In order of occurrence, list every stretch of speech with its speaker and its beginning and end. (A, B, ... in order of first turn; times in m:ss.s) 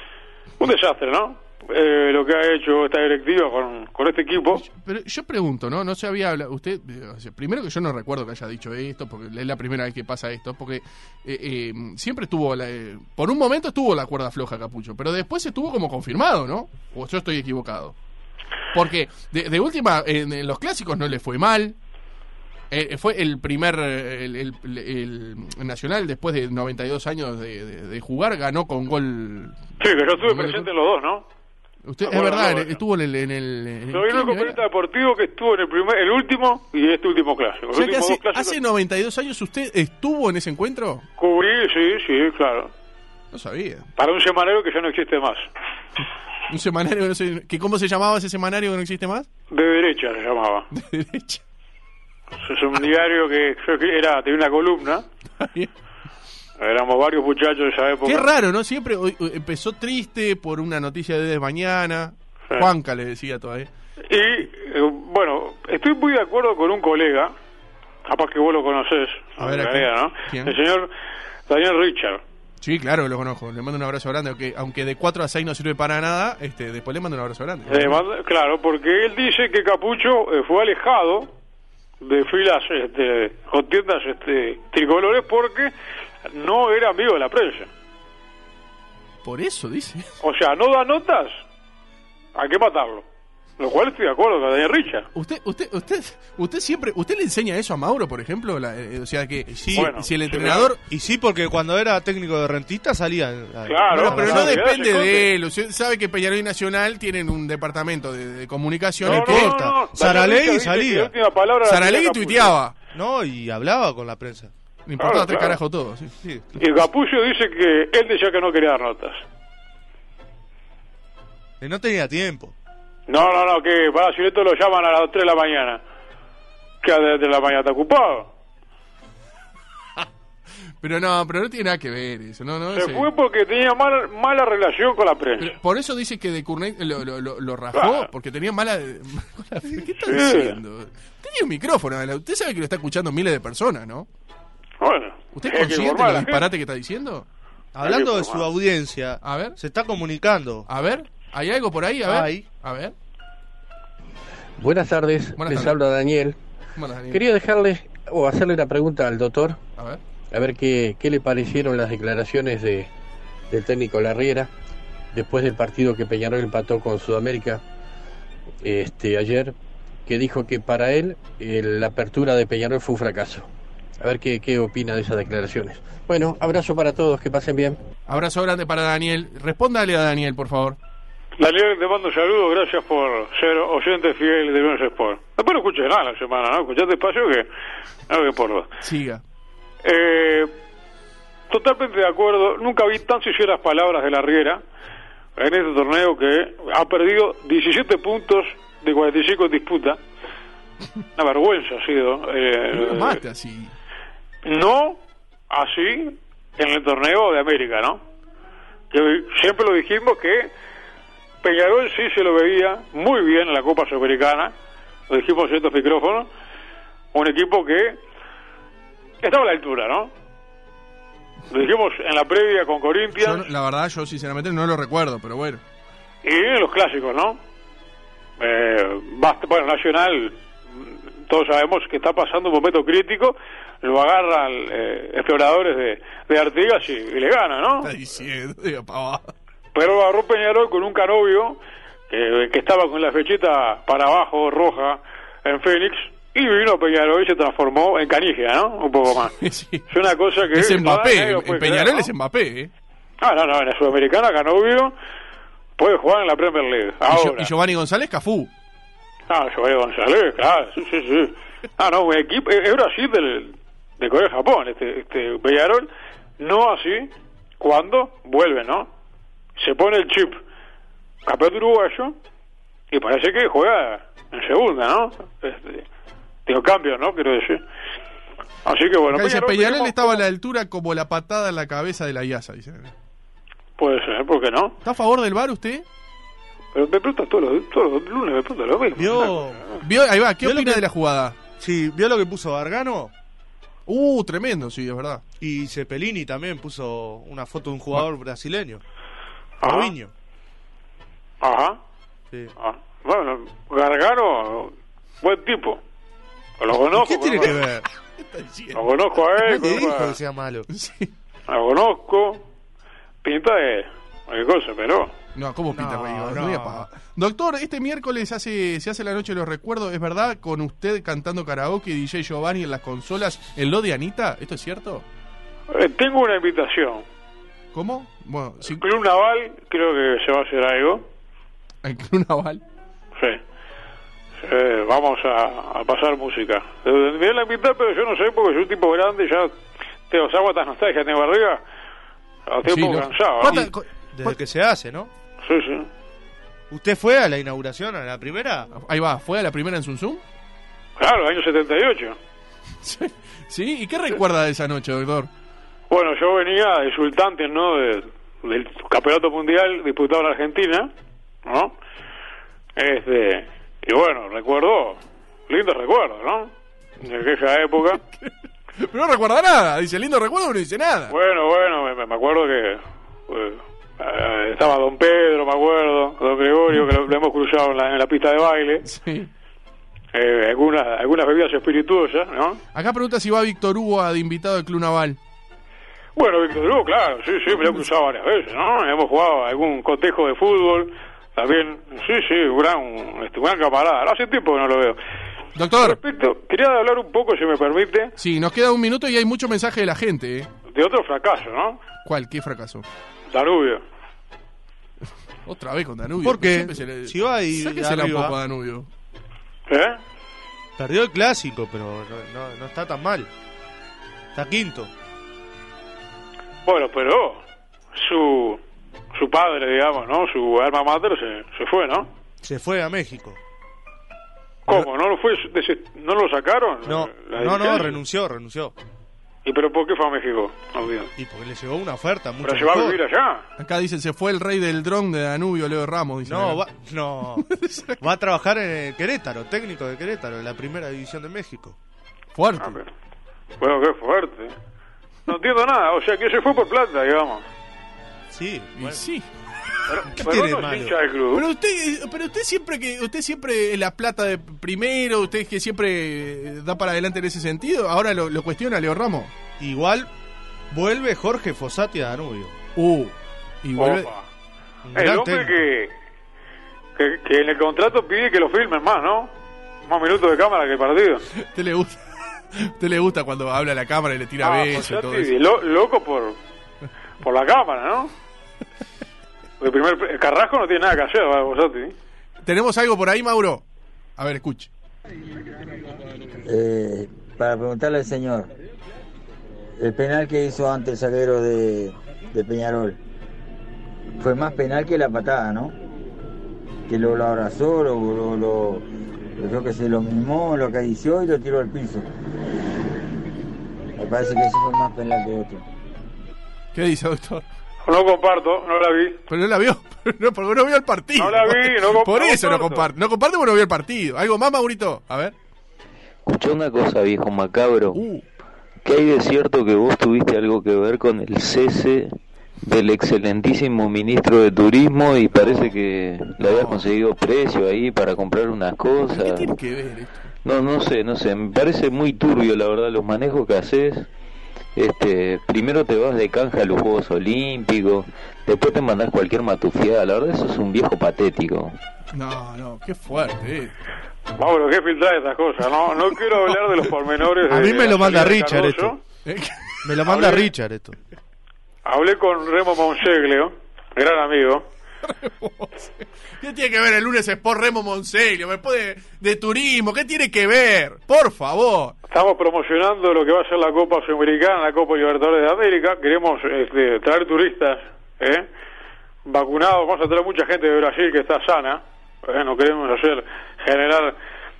0:00.6-0:04.6 A
0:04.5-0:18.0 B
0:18.7-0:21.8 B
0:22.7-0:29.6 B
0:29.8-0:31.3 A
0:30.2-0:30.7 B
0:31.8-0:34.6 B
0:32.0-0:32.8 A
0:33.9-0:38.6 A
0:37.7-0:41.1 B
0:41.2-0:42.7 A
0:43.3-0:43.9 B
0:44.0-0:45.5 A
0:46.5-0:49.3 B
0:49.5-0:50.7 A
0:50.7-0:51.4 B
0:52.4-0:55.0 A
0:55.4-0:55.7 B
0:56.6-0:58.3 A
0:58.0-1:03.7 B
1:04.1-1:07.3 A
1:08.1-1:10.9 A
1:09.4-1:10.6 B
1:11.5-1:12.2 A
1:12.6-1:18.0 B
1:17.7-1:21.3 A
1:22.0-1:25.7 A
1:26.3-1:27.7 A
1:29.2-1:30.2 B
1:30.2-1:31.4 A
1:32.4-1:33.1 A
1:33.6-1:35.1 A
1:35.2-1:40.8 B
1:39.6-1:44.6 C
1:39.8-1:40.7 A
1:43.7-1:45.3 A
1:43.9-1:49.6 B
1:49.0-1:51.1 C
1:49.0-1:52.6 A
1:51.7-1:52.7 B
1:52.9-1:54.5 C
1:54.9-1:56.1 B
1:55.0-1:55.6 A
1:56.2-1:56.6 C
1:56.6-1:59.2 A
2:01.6-2:02.5 C
2:03.1-2:05.8 A
2:06.8-2:08.3 A
2:10.8-2:13.1 B
2:12.7-2:15.6 A
2:15.4-2:24.1 B
2:17.7-2:18.1 A
2:20.0-2:20.6 A
2:24.8-2:26.5 A
2:25.4-2:27.3 B
2:27.8-2:30.7 C
2:27.8-2:28.5 A
2:29.2-2:29.6 B
2:30.7-2:32.9 B
2:32.1-2:32.5 C
2:34.6-2:36.4 D
2:35.4-2:35.8 B
2:36.8-2:37.2 B
2:37.1-2:39.6 D
2:40.3-2:42.9 D
2:43.5-2:44.5 D
2:45.1-2:47.6 D
2:48.6-2:49.6 D
2:50.1-2:53.5 D
2:54.0-2:57.8 D
2:58.1-3:00.8 B
3:01.4-3:07.5 A
3:08.1-3:08.7 A
3:08.8-3:09.2 B
3:09.8-3:10.5 A
3:11.5-3:14.6 A
3:15.4-3:20.0 A
3:21.2-3:23.2 A
3:22.7-3:23.7 B
3:24.4-3:28.0 A
3:28.9-3:30.5 A
3:31.4-3:34.5 A
3:35.1-3:36.3 A
3:37.1-3:38.0 A
3:39.2-3:40.1 A
3:41.5-3:43.5 A
3:43.2-3:45.6 B
3:46.2-3:47.4 A
3:48.4-3:57.9 A
3:57.8-3:59.3 B
3:59.7-4:01.6 A
4:02.1-4:09.4 A
4:09.4-4:09.9 B
4:09.9-4:12.1 A
4:10.5-4:12.7 B
4:13.2-4:14.9 A
4:15.8-4:17.5 A
4:17.1-4:18.5 B
4:19.3-4:28.9 A
4:29.6-4:30.4 A
4:31.3-4:32.2 A
4:32.9-4:35.9 A
4:36.5-4:37.6 A
4:38.6-4:40.2 A
4:39.1-4:42.9 B
4:43.8-4:44.8 A
4:44.8-4:45.8 B
4:46.7-4:49.8 A
4:49.0-4:49.6 C
4:49.8-4:51.4 B
4:50.4-4:50.9 C
4:51.6-4:53.1 C
4:53.9-4:55.2 B
4:55.4-4:58.8 C
4:59.6-4:59.9 A
4:59.6-5:00.1 C
5:01.4-5:01.8 A
5:02.6-5:05.8 A
5:06.6-5:07.6 A
5:07.0-5:09.9 B
5:07.1-5:07.8 C
5:08.7-5:10.2 A
5:09.5-5:10.7 C
5:10.7-5:11.1 B
5:11.5-5:12.5 A
5:13.2-5:15.1 A
5:15.4-5:25.0 B
5:15.7-5:16.9 C
5:25.7-5:27.0 A
5:27.7-5:28.8 B
5:28.6-5:31.1 A
5:31.8-5:32.6 B
5:34.4-5:39.5 A
5:40.1-5:41.6 A
5:42.5-5:43.6 A
5:42.7-5:44.4 B
5:43.4-5:45.1 C
5:45.4-5:45.9 A
5:46.7-5:48.7 C
5:48.7-5:50.2 B
5:51.0-5:52.2 A
5:52.8-5:55.3 B
5:55.9-6:00.9 A
6:01.4-6:01.7 A
6:02.8-6:08.0 A
6:08.0-6:11.2 B
6:11.1-6:18.9 A
6:18.8-6:19.3 B
6:20.1-6:22.6 A
6:22.7-6:25.2 B
6:26.2-6:35.0 A
6:35.6-6:36.0 B
6:35.8-6:38.2 A
6:38.2-6:40.5 B
6:40.7-6:41.8 A
6:42.0-6:42.9 B
6:43.3-6:43.8 A
6:45.5-6:48.9 B
6:46.2-6:48.4 C
6:49.7-6:50.0 A
6:50.8-6:53.3 C
6:54.3-6:54.9 C
6:56.6-6:57.4 A
6:57.9-6:58.6 A
6:59.1-7:02.1 A
7:02.4-7:03.4 C
7:04.7-7:08.0 A
7:06.8-7:08.8 C
7:09.4-7:11.1 A
7:11.2-7:13.0 C
7:12.4-7:13.5 A
7:13.6-7:16.6 B
7:16.3-7:21.8 C
7:17.4-7:18.0 B
7:22.4-7:22.8 B
7:22.6-7:22.9 A
7:23.6-7:24.6 A
7:25.3-7:27.5 A
7:28.3-7:29.0 C
7:28.8-7:29.3 B
7:29.9-7:31.4 A
7:30.1-7:31.0 C
7:31.3-7:39.3 B
7:39.6-7:40.1 C
7:40.7-7:42.6 C
7:42.8-7:44.1 B
7:43.8-7:44.2 A
7:44.8-7:45.6 C
7:45.0-7:45.9 A
7:47.0-7:49.3 A
7:49.9-7:51.2 A
7:51.4-7:55.3 B
7:54.4-7:56.4 A
7:57.2-7:58.1 A
7:59.6-8:01.9 A
8:02.4-8:03.6 B
8:04.2-8:04.7 B
8:06.4-8:08.5 E
8:09.8-8:13.0 E
8:14.2-8:15.8 E
8:16.9-8:22.1 E
8:24.0-8:25.6 E
8:26.7-8:27.4 B
8:27.8-8:29.2 A
8:29.3-8:35.3 B
8:31.2-8:32.9 A
8:36.3-8:38.0 F
8:38.0-8:38.2 B
8:38.8-8:49.5 F
8:45.3-8:45.8 B
8:46.4-8:46.8 B
8:49.1-8:50.3 B
8:50.4-8:54.1 F
8:54.8-9:01.8 F
9:02.1-9:03.8 B
9:04.4-9:09.0 A
9:07.5-9:09.0 C
9:09.2-9:10.0 B
9:09.8-9:11.0 C
9:10.1-9:10.5 A
9:11.9-9:14.7 A
9:15.0-9:22.0 B
9:22.1-9:28.5 A
9:29.3-9:34.2 A